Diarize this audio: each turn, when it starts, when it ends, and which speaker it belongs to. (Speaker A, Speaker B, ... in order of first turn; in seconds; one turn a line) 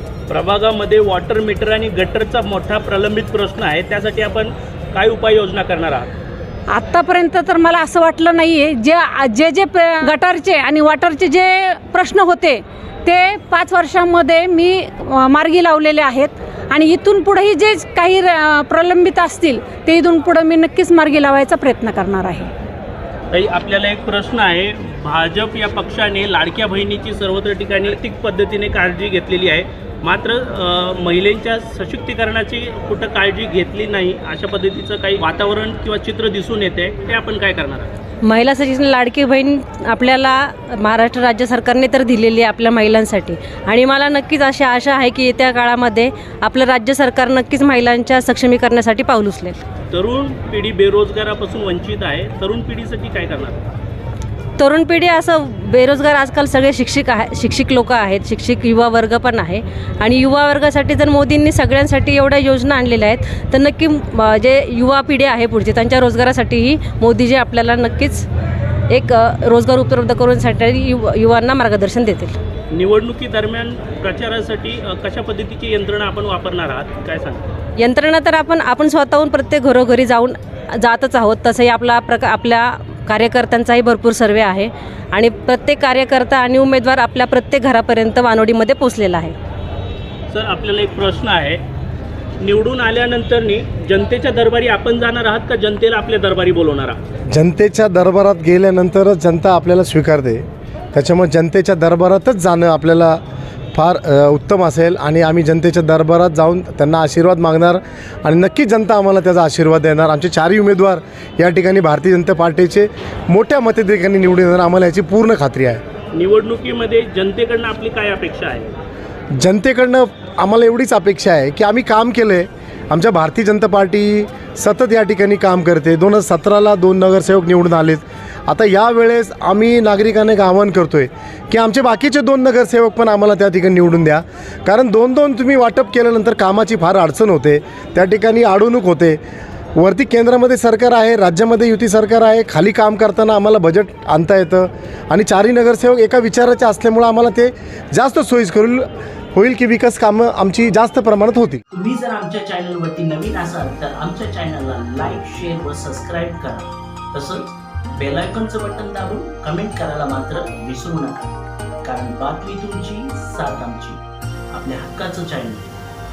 Speaker A: 0.3-6.1
Speaker B: 6.7-22.5
Speaker A: 23.3-37.9
Speaker C: 38.2-49.6
Speaker A: 49.9-53.7
Speaker C: 54.6-68.3
Speaker C: 68.9-72.3
Speaker A: 72.7-77.5
Speaker C: 77.8-89.3
Speaker A: 90.3-91.6
Speaker A: 92.4-97.0
Speaker D: 97.3-103.2
Speaker D: 103.7-115.8
Speaker A: 116.1-118.7
Speaker D: 119.4-139.2
Speaker D: 139.8-151.6
Speaker E: 151.7-165.7